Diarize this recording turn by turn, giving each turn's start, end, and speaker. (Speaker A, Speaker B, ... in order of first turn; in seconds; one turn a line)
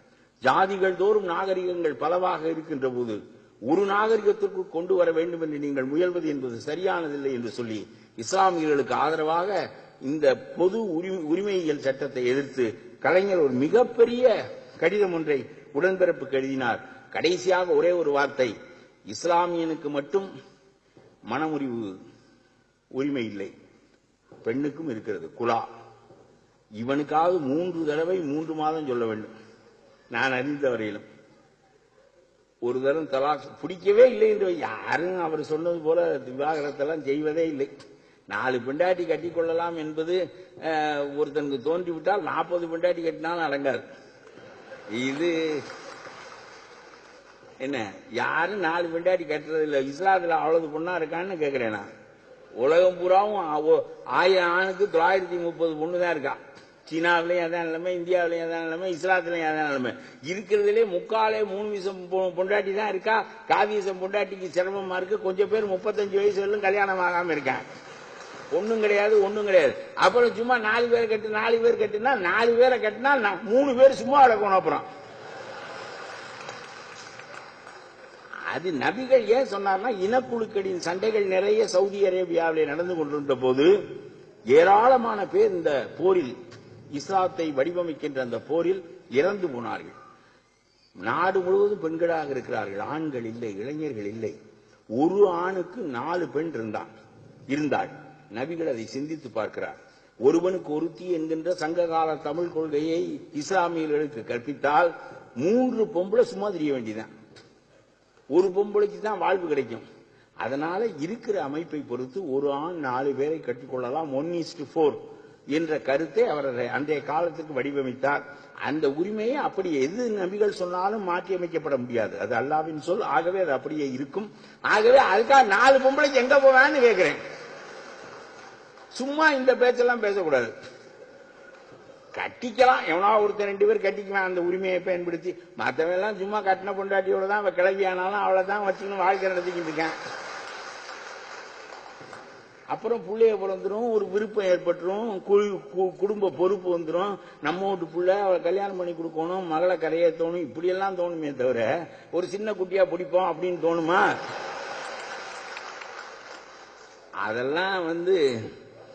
Speaker A: 0.4-18.5
Speaker A: 19.1-20.3
Speaker A: 21.3-21.9
Speaker A: 22.9-23.5
Speaker A: 24.4-25.7
Speaker A: 26.8-29.3
Speaker A: 30.1-31.1
Speaker A: 32.6-37.7
Speaker A: 38.3-43.8
Speaker A: 44.9-45.6
Speaker A: 47.6-51.9
Speaker A: 52.6-67.6
Speaker A: 68.5-74.8
Speaker A: 78.5-83.7
Speaker A: 84.5-86.3
Speaker A: 86.9-90.0
Speaker A: 91.0-94.3
Speaker A: 95.0-96.9
Speaker A: 97.5-107.1
Speaker A: 108.3-109.8
Speaker A: 110.4-115.0
Speaker A: 115.5-127.2
Speaker A: 128.9-130.5
Speaker A: 132.2-139.9
Speaker A: 142.7-154.1
Speaker A: 157.2-158.2